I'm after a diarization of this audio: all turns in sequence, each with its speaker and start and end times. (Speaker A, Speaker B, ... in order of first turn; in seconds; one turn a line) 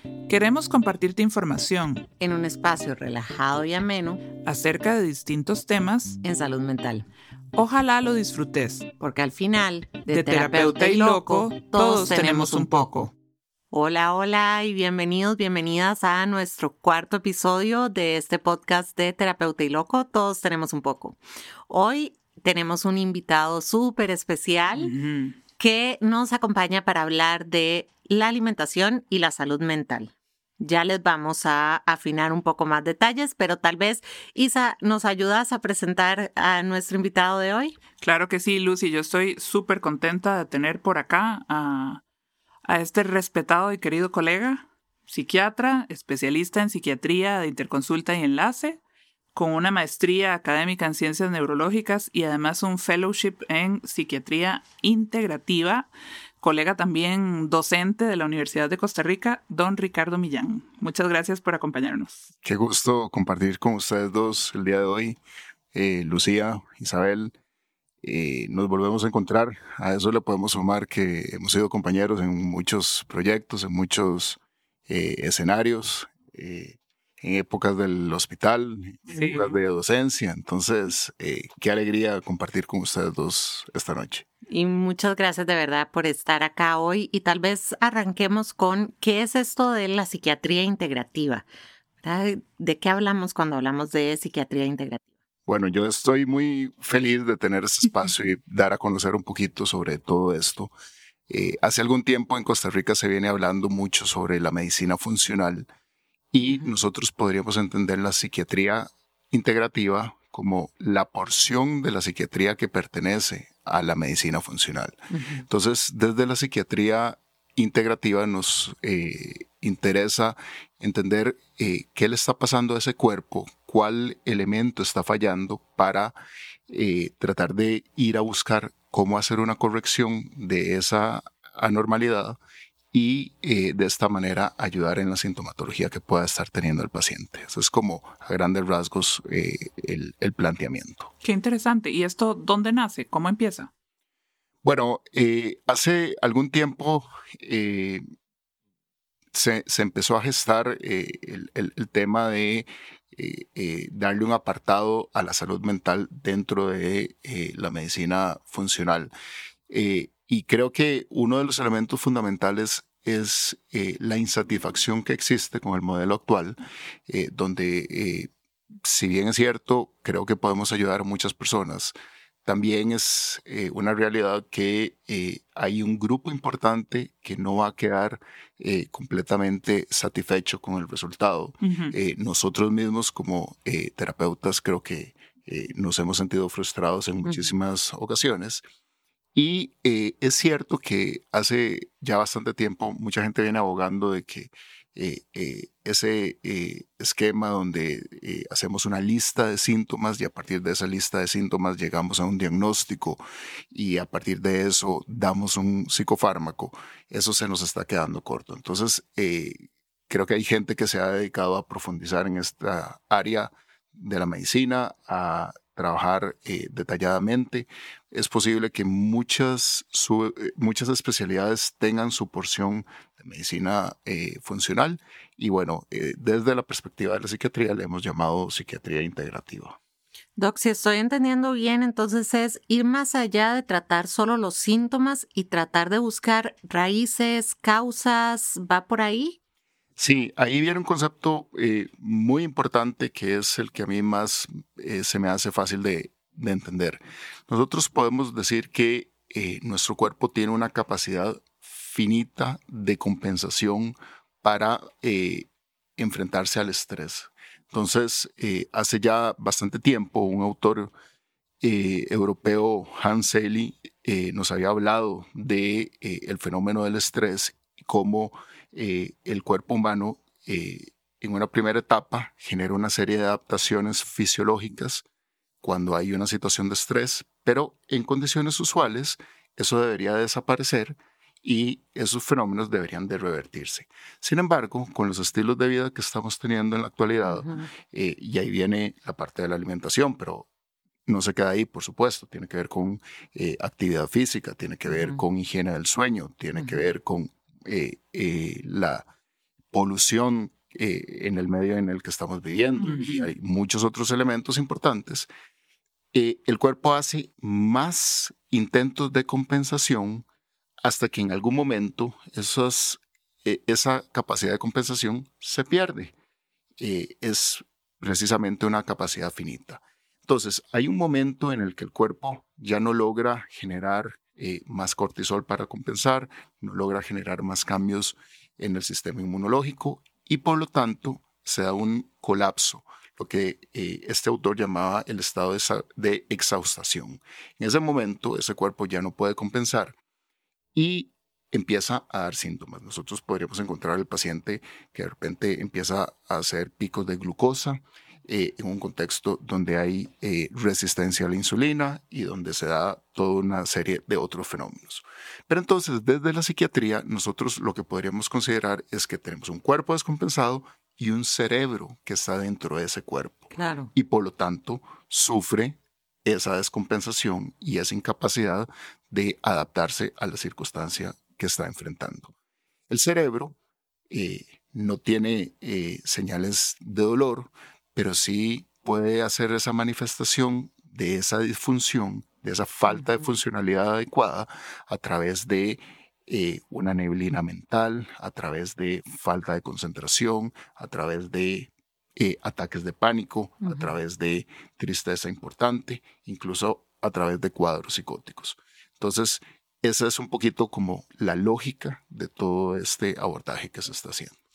Speaker A: 0.3-2.1
Speaker B: 2.2-4.2
Speaker A: 4.4-6.2
Speaker B: 6.2-7.0
Speaker A: 7.5-8.9
Speaker B: 9.0-12.9
Speaker A: 10.1-13.1
Speaker B: 13.7-21.2
Speaker B: 21.7-24.9
Speaker A: 24.7-25.3
Speaker B: 25.6-37.8
Speaker A: 38.0-42.0
Speaker A: 42.6-48.8
Speaker A: 49.3-55.9
Speaker A: 56.4-62.3
Speaker C: 62.4-65.2
Speaker C: 65.7-67.3
Speaker C: 68.0-84.3
Speaker A: 79.1-79.5
Speaker B: 84.5-91.4
Speaker B: 92.0-95.0
Speaker C: 95.5-100.7
Speaker C: 101.3-105.7
Speaker C: 106.3-126.2
Speaker B: 115.1-115.4
Speaker C: 126.7-132.4
Speaker C: 132.9-141.1
Speaker A: 141.2-143.7
Speaker C: 144.6-148.0
Speaker C: 149.3-159.1
Speaker C: 159.7-168.3
Speaker C: 168.8-188.6
Speaker A: 181.6-181.9
Speaker B: 187.2-187.5
Speaker C: 189.3-229.8
Speaker B: 230.4-239.4
Speaker C: 240.0-260.9
Speaker C: 261.6-275.0
Speaker C: 275.6-290.5
Speaker B: 287.2-287.7
Speaker C: 291.1-299.1
Speaker B: 294.9-295.2
Speaker B: 296.5-296.9
Speaker C: 299.7-305.3
Speaker A: 302.8-303.3
Speaker B: 302.8-303.1
Speaker C: 306.1-310.2
Speaker C: 310.8-316.1
Speaker C: 316.8-339.9
Speaker C: 340.7-372.3
Speaker B: 363.5-363.9
Speaker C: 372.9-373.6
Speaker C: 374.1-404.4
Speaker B: 393.6-393.9